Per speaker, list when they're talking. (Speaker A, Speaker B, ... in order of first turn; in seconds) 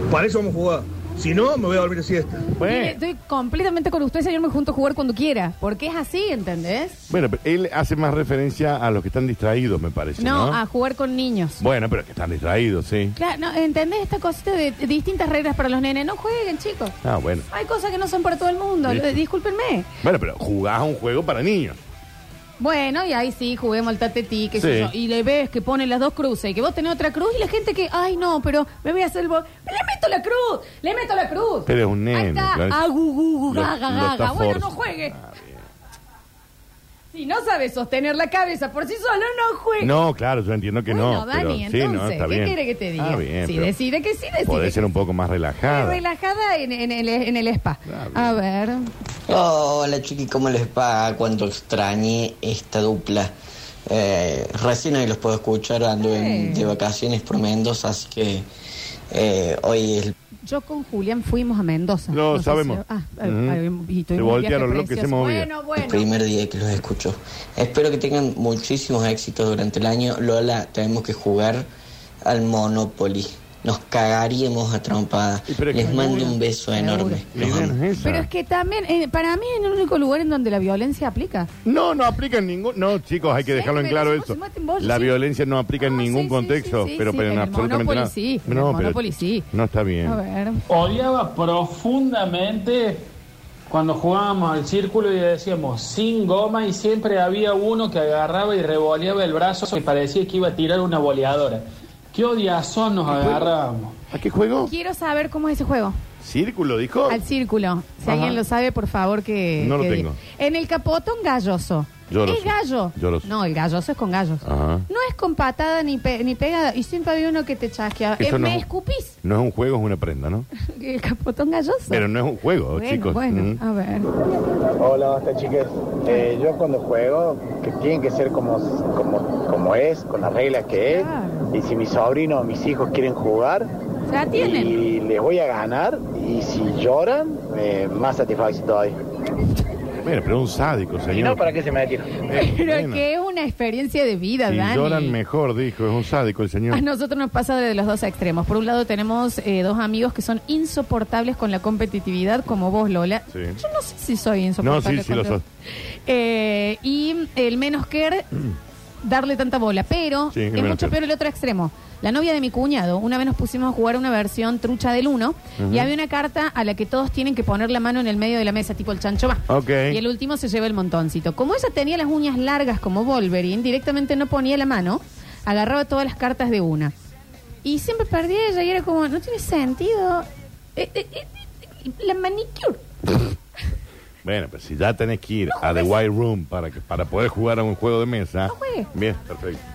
Speaker A: 0.1-2.5
Speaker B: 2.6-3.0, 7.1-10.6, 11.6-13.2, 17.0-17.5, 18.8-19.2, 20.0-21.8, 24.6-24.9, 31.6-32.8, 33.5-35.6, 39.8-43.7, 44.5-46.0, 47.9-48.4, 62.1-63.6, 64.2-65.5, 75.5-76.3, 77.3-78.3, 81.7-90.2, 103.1-103.6, 104.1-104.7, 106.2-107.2, 108.1-108.4, 109.6-110.2, 112.1-113.3, 114.4-114.9, 118.2-118.7, 119.2-120.5, 121.9-123.6, 140.0-141.5, 142.3-143.0, 144.5-146.8, 153.3-153.6, 154.6-155.4, 160.3-161.0, 165.6-165.9, 169.5-170.0, 184.2-189.6
Speaker C: 2.6-7.0, 10.2-11.6, 13.2-16.9, 17.5-19.9, 22.6-35.2, 37.1-40.0, 40.9-44.8, 45.7-48.9, 56.0-56.7, 60.5-66.1, 75.8-77.2, 78.0-81.5, 83.3-85.2, 85.8-89.5, 90.0-90.6, 104.6-106.0, 107.1-119.2, 120.6-122.0, 122.7-124.1, 130.9-131.5, 134.1-134.7, 142.3-145.2, 146.7-158.3, 159.0-176.9, 177.6-182.8, 185.5-186.0, 188.5-188.9
Speaker D: 49.3-53.3, 53.9-58.5, 59.1-60.1, 65.8-71.7, 72.2-77.7
Speaker E: 90.7-93.0, 93.7-104.0
Speaker F: 124.8-133.7, 134.3-138.9, 141.1-142.2